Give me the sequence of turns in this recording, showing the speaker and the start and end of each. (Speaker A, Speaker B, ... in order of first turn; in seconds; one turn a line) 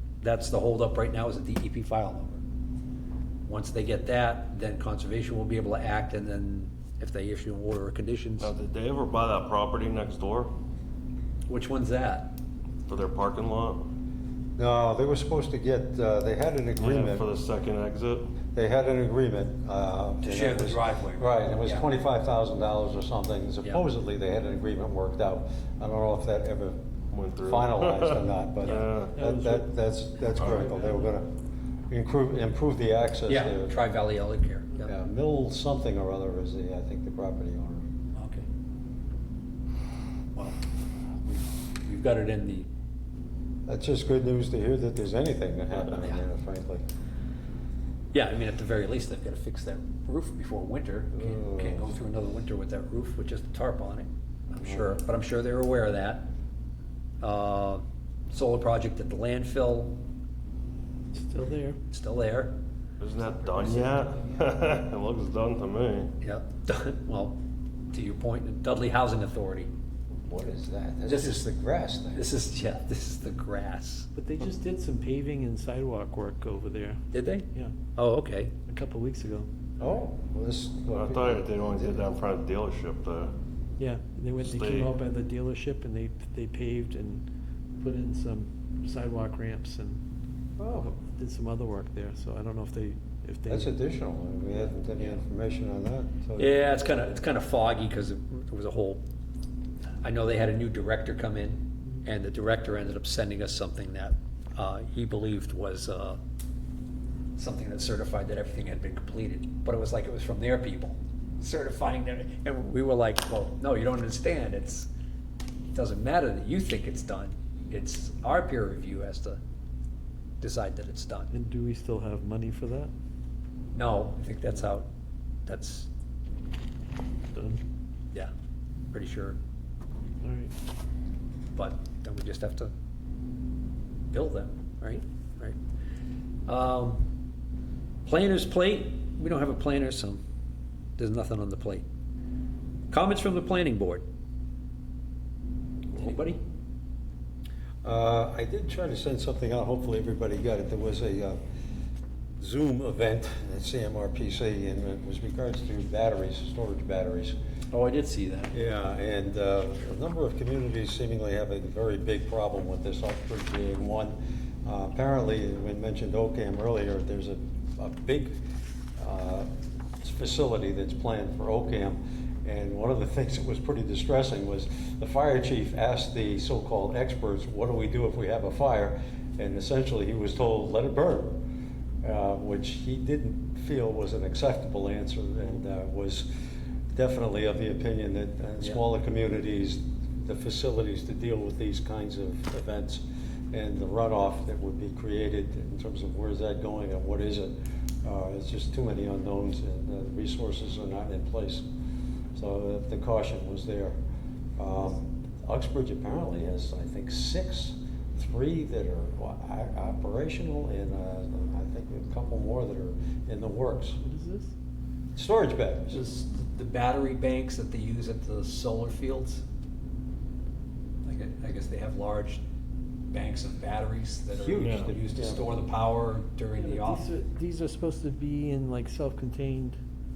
Speaker A: 0.2-2.4
Speaker A: 3.5-8.5
Speaker B: 8.4-10.5
Speaker A: 11.5-12.3
Speaker B: 12.9-13.9
Speaker C: 14.6-17.3
Speaker B: 16.8-18.4
Speaker C: 18.5-26.8
Speaker A: 20.2-21.8
Speaker B: 27.1-29.2
Speaker C: 27.5-31.3
Speaker D: 28.7-29.7
Speaker B: 30.4-30.7
Speaker D: 30.5-30.9
Speaker C: 31.9-33.8
Speaker A: 33.3-34.9
Speaker C: 34.9-37.8
Speaker A: 38.2-38.5
Speaker A: 41.2-42.7
Speaker C: 43.7-46.8
Speaker A: 45.9-46.2
Speaker A: 48.1-56.3
Speaker C: 51.2-51.9
Speaker C: 54.6-55.0
Speaker A: 57.2-60.0
Speaker D: 61.1-61.8
Speaker A: 61.9-62.5
Speaker B: 63.0-66.1
Speaker A: 66.2-67.4
Speaker A: 67.9-69.7
Speaker C: 70.2-72.3
Speaker A: 71.1-71.5
Speaker A: 72.1-74.1
Speaker D: 74.2-77.0
Speaker A: 77.1-78.5
Speaker D: 78.7-79.5
Speaker C: 79.8-82.0
Speaker B: 80.9-83.3
Speaker D: 83.8-87.2
Speaker B: 84.4-84.9
Speaker D: 87.8-90.0
Speaker C: 90.6-90.9
Speaker D: 90.7-93.7
Speaker C: 93.5-96.5
Speaker A: 96.4-99.0
Speaker A: 100.0-106.2
Speaker A: 107.4-114.9
Speaker A: 115.7-119.4
Speaker A: 120.4-121.3
Speaker D: 121.3-122.9
Speaker A: 123.7-124.9
Speaker A: 125.5-125.9
Speaker D: 127.3-127.6
Speaker A: 128.9-129.4
Speaker D: 130.2-130.5
Speaker A: 131.6-132.7
Speaker A: 134.1-135.6
Speaker A: 136.5-137.0
Speaker A: 138.1-140.2
Speaker A: 141.0-141.8
Speaker A: 142.9-144.1
Speaker A: 145.9-146.4
Speaker C: 147.8-151.4
Speaker C: 152.4-157.4
Speaker A: 157.7-158.6
Speaker C: 158.5-168.3
Speaker C: 169.0-169.5
Speaker C: 170.0-181.4
Speaker C: 182.0-186.3
Speaker C: 186.9-201.7
Speaker C: 202.3-204.0
Speaker C: 204.6-214.0
Speaker D: 214.0-214.5
Speaker C: 215.2-216.0
Speaker A: 215.9-219.4
Speaker A: 221.0-222.4
Speaker A: 223.1-227.1
Speaker C: 224.3-225.5
Speaker B: 224.6-224.9
Speaker D: 226.6-229.8